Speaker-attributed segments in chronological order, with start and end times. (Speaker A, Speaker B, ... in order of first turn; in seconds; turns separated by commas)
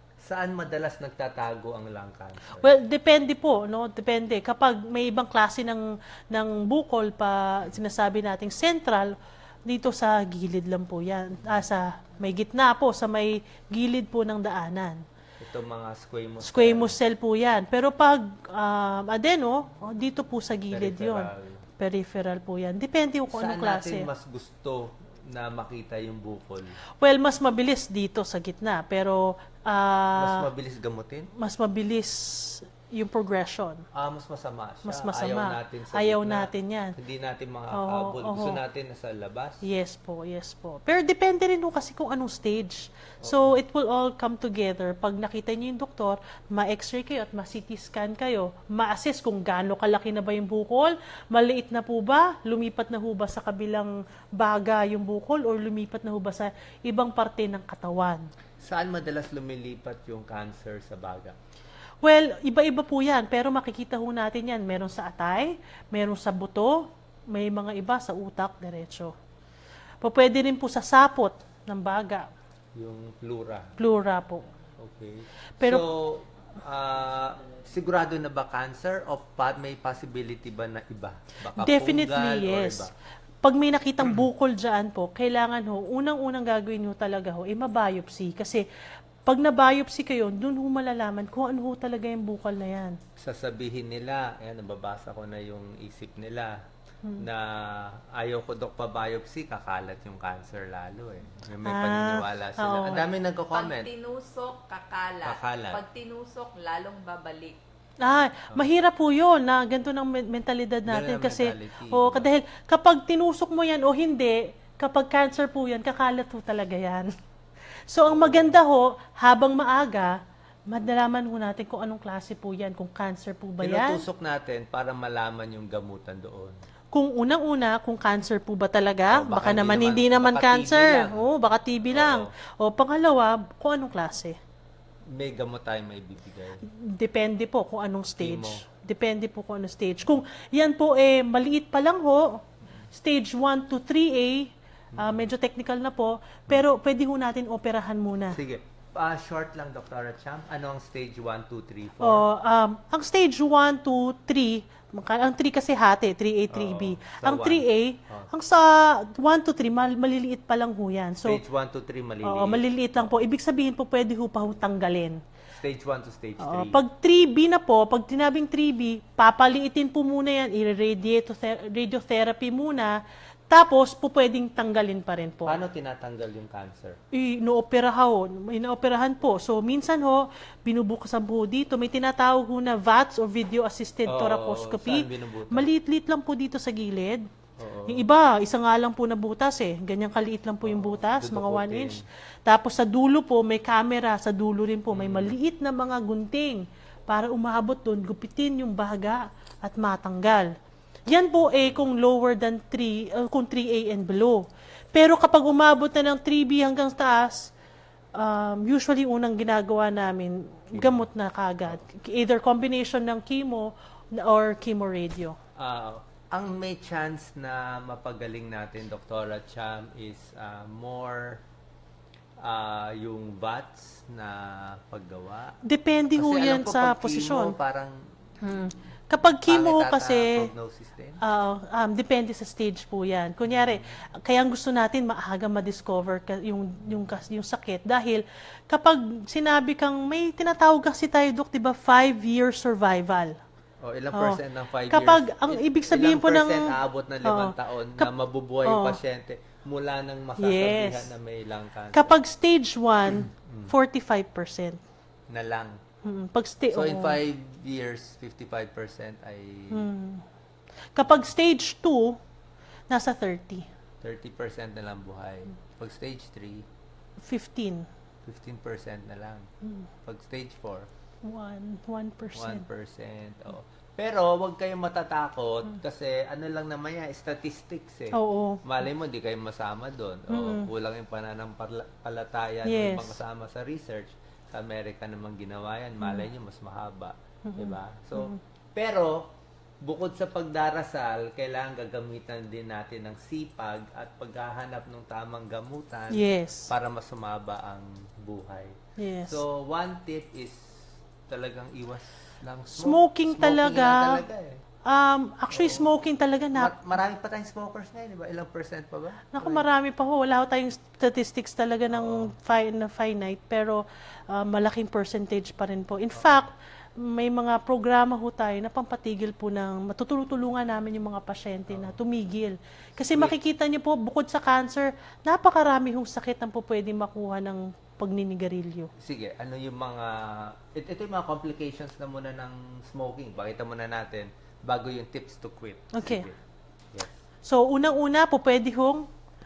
Speaker A: 0.2-2.7, Speaker B: 2.6-9.1, Speaker B: 9.7-15.0, Speaker A: 15.4-16.9, Speaker B: 16.4-24.1, Speaker A: 20.7-21.6, Speaker A: 23.3-26.8, Speaker B: 27.0-30.5, Speaker A: 30.1-31.3, Speaker B: 31.4-33.8, Speaker A: 33.9-39.6, Speaker B: 34.8-36.9, Speaker B: 37.7-38.6, Speaker B: 39.6-58.2, Speaker A: 43.2-43.5, Speaker A: 58.6-61.4, Speaker B: 62.0-69.1, Speaker B: 70.0-72.2, Speaker A: 72.8-73.8, Speaker B: 73.8-74.4, Speaker A: 74.8-82.9, Speaker B: 75.6-75.8, Speaker B: 81.5-82.9, Speaker B: 83.4-88.6, Speaker B: 89.3-93.0, Speaker A: 93.2-96.5, Speaker A: 97.2-103.9, Speaker B: 101.6-103.1, Speaker C: 103.5-107.6, Speaker A: 105.2-105.8, Speaker B: 108.0-117.1, Speaker A: 110.8-112.3, Speaker B: 117.9-120.2, Speaker A: 118.0-118.6, Speaker B: 120.7-124.0, Speaker A: 123.6-126.6, Speaker B: 126.9-134.3, Speaker A: 129.1-131.3, Speaker A: 131.9-132.3, Speaker A: 135.1-136.6, Speaker B: 136.7-142.4, Speaker A: 138.2-138.6, Speaker B: 142.9-148.4, Speaker A: 144.9-145.3, Speaker A: 148.3-152.2, Speaker B: 152.0-161.4, Speaker A: 156.5-158.3, Speaker A: 161.2-162.6, Speaker B: 162.2-165.2, Speaker A: 165.5-166.8, Speaker B: 166.4-173.0, Speaker B: 173.5-175.6, Speaker A: 175.4-177.0, Speaker B: 177.1-187.2, Speaker A: 184.1-185.7, Speaker A: 187.6-188.0, Speaker B: 187.9-200.5, Speaker A: 190.6-192.0, Speaker A: 194.9-195.3, Speaker B: 201.1-204.4, Speaker A: 201.4-201.8, Speaker B: 204.9-207.5, Speaker B: 208.1-215.4, Speaker A: 210.7-211.1, Speaker A: 215.6-221.4, Speaker A: 222.4-225.6, Speaker B: 225.6-227.5, Speaker A: 226.2-228.0, Speaker B: 228.4-230.5, Speaker A: 229.4-231.2, Speaker B: 231.2-243.3, Speaker A: 233.5-233.9, Speaker A: 243.8-252.1, Speaker B: 244.1-248.1, Speaker B: 248.6-249.0, Speaker B: 250.4-251.1, Speaker B: 251.9-254.8, Speaker A: 253.2-253.7, Speaker A: 255.3-255.8, Speaker B: 256.0-257.2, Speaker A: 256.7-259.9, Speaker B: 259.7-260.2, Speaker B: 260.9-262.2, Speaker B: 262.9-263.7, Speaker A: 264.0-266.6, Speaker B: 267.2-267.9, Speaker A: 268.2-269.5, Speaker A: 270.0-270.9, Speaker B: 271.2-272.6, Speaker A: 272.3-289.3, Speaker B: 278.1-278.6, Speaker B: 280.3-280.7, Speaker B: 282.6-283.2, Speaker B: 286.0-286.3, Speaker B: 287.4-288.4, Speaker A: 289.8-304.6, Speaker B: 296.1-296.7, Speaker B: 299.0-299.4, Speaker B: 302.8-304.2, Speaker B: 304.9-306.8, Speaker A: 305.5-305.9, Speaker A: 306.5-309.6, Speaker B: 309.3-328.9, Speaker A: 311.9-312.3, Speaker A: 323.1-323.4, Speaker A: 329.0-336.4, Speaker B: 335.9-336.3, Speaker B: 337.4-339.1